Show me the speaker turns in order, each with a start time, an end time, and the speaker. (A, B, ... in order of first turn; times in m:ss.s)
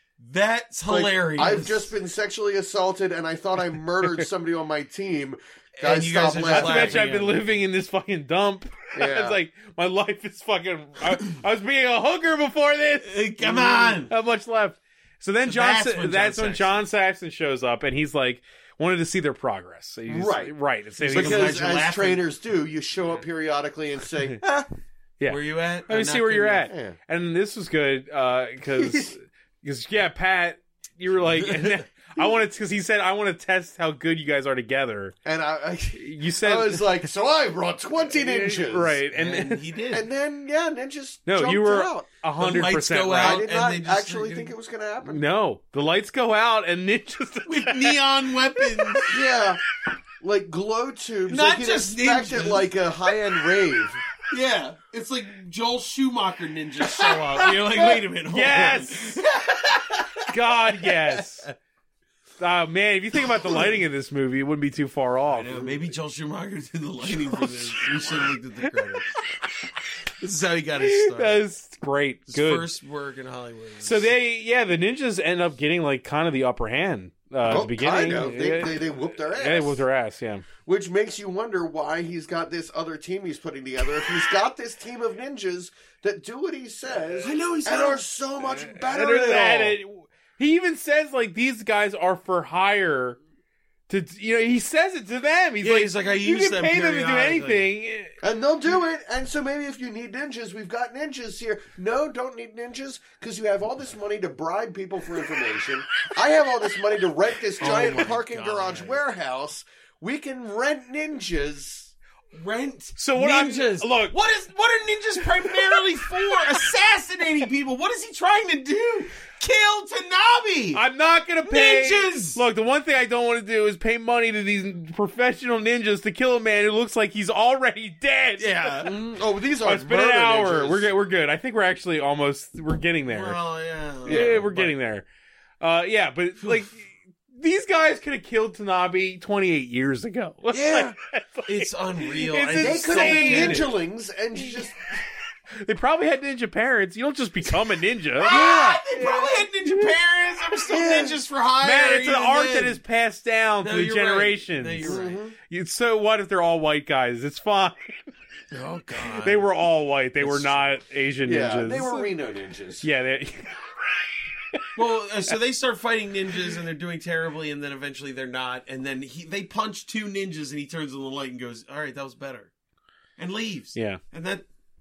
0:00.2-0:01.9 A
0:00.9-0:07.0 B
0:05.8-0:07.4 A
0:06.5-0:21.6 C
0:08.9-0:09.4 B
0:13.0-0:14.1 A
0:15.4-0:16.8 A
0:20.1-0:20.5 B
0:21.0-0:22.2 A
0:21.1-0:24.6 B
0:25.2-0:35.1 C
0:25.3-0:26.7 A
0:26.7-0:27.0 B
0:28.8-0:29.1 B
0:35.2-0:39.0 B
0:35.9-0:37.1 C
0:38.0-0:39.6 C
0:39.1-0:40.0 A
0:39.9-0:42.1 B
0:41.2-0:43.4 C
0:42.4-0:44.5 A
0:43.1-0:45.2 B
0:45.0-0:48.0 C
0:47.4-0:49.2 A
0:48.6-0:49.1 C
0:49.1-0:49.6 B
0:50.2-0:54.0 B
0:51.3-0:52.7 A
0:54.3-1:00.3 A
0:57.0-0:59.2 C
1:00.3-1:01.5 C
1:00.8-1:01.5 A
1:02.4-1:05.6 C
1:03.2-1:03.6 A
1:05.3-1:09.1 A
1:07.0-1:08.6 C
1:10.2-1:11.4 A
1:10.8-1:12.7 C
1:12.3-1:14.1 A
1:13.8-1:20.4 C
1:17.4-1:19.8 B
1:20.6-1:29.8 B
1:27.2-1:28.0 A
1:28.7-1:33.2 C
1:33.9-1:38.1 C
1:35.6-1:37.6 A
1:38.2-1:51.9 B
1:47.6-1:49.0 A
1:52.3-2:00.8 A
1:53.0-1:54.1 C
2:00.7-2:08.9 C
2:01.4-2:02.4 A
2:08.4-2:08.9 A
2:08.8-2:10.9 B
2:09.6-2:13.4 C
2:13.1-2:14.7 A
2:14.0-2:14.4 B
2:14.1-2:15.0 C
2:15.6-2:23.7 C
2:20.5-2:20.9 B
2:21.5-2:23.7 A
2:22.6-2:25.0 B
2:25.6-2:28.5 C
2:28.2-2:29.3 B
2:28.2-2:32.8 A
2:30.7-2:31.2 B
2:31.6-2:38.1 C
2:33.6-2:35.2 A
2:34.8-2:35.4 B
2:38.5-2:39.4 A
2:39.2-2:42.1 C
2:40.2-2:40.8 A
2:41.2-2:42.8 B
2:42.8-2:44.0 C
2:44.8-2:52.5 A
2:53.2-2:54.4 A
2:53.7-2:54.0 C